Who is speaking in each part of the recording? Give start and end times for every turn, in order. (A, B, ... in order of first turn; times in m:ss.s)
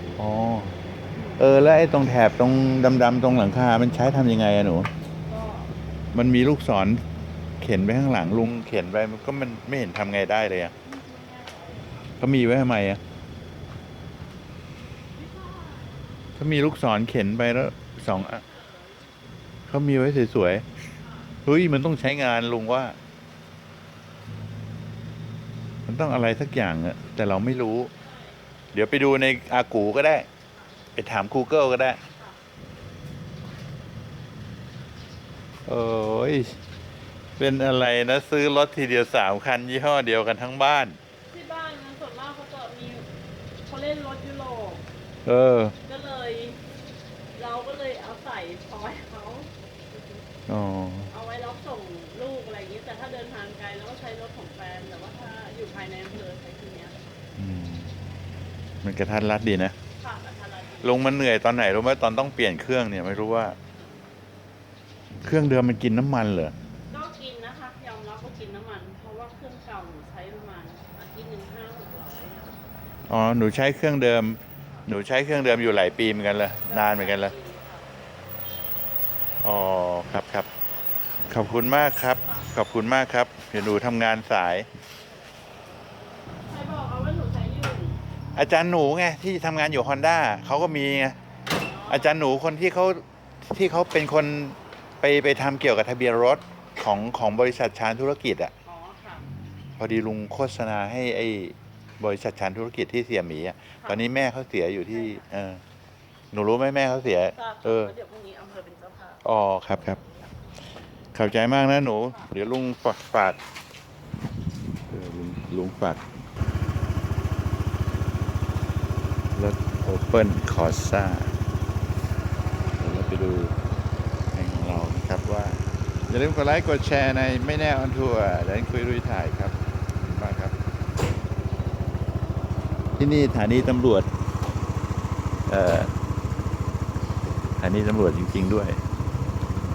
0:00.2-0:00.7 A
0:01.1-0:01.4 B
0:01.4-0:04.9 A
0:05.2-0:05.7 B
0:06.1-0:07.0 A
0:07.6-0:10.7 A
0:10.8-0:12.1 B
0:12.2-0:13.0 A
0:15.1-0:16.1 B
0:16.4-0:18.4 A
0:18.1-0:19.1 B
0:19.7-0:20.6 A
0:21.0-0:21.3 B
0:21.4-0:23.0 A
0:25.9-0:27.9 A
0:28.0-0:28.4 B
0:28.7-0:30.3 A
0:31.0-0:32.0 A
0:35.7-0:36.6 A
0:37.4-0:41.0 A
0:41.3-0:43.0 B
0:43.7-0:44.8 B
0:45.2-0:45.7 A
0:45.9-0:46.6 B
0:47.4-0:50.2 B
0:50.5-0:51.1 A
0:51.1-0:57.2 B
0:57.4-0:57.9 A
0:58.8-0:59.7 A
1:00.0-1:01.2 B
1:00.8-1:03.6 A
1:05.2-1:06.5 A
1:06.9-1:12.6 B
1:13.1-1:17.3 A
1:16.6-1:17.9 B
1:19.4-1:20.5 A
1:21.3-1:24.7 A
1:22.2-1:22.5 B
1:26.4-1:28.0 B
1:28.3-1:31.2 A
1:31.5-1:32.2 B
1:31.9-1:38.5 A
1:38.6-1:39.2 B
1:39.8-1:45.6 A
1:43.8-1:44.3 B
1:44.8-1:45.2 B
1:46.3-1:47.9 A
1:47.3-1:49.2 B
1:49.2-1:50.0 A
1:51.1-1:53.4 A
1:54.9-1:56.0 A
1:59.4-2:01.3 A
2:02.8-2:03.5 A
2:04.3-2:10.5 A
2:13.0-2:14.1 A
2:15.5-2:15.9 A
2:17.6-2:18.8 A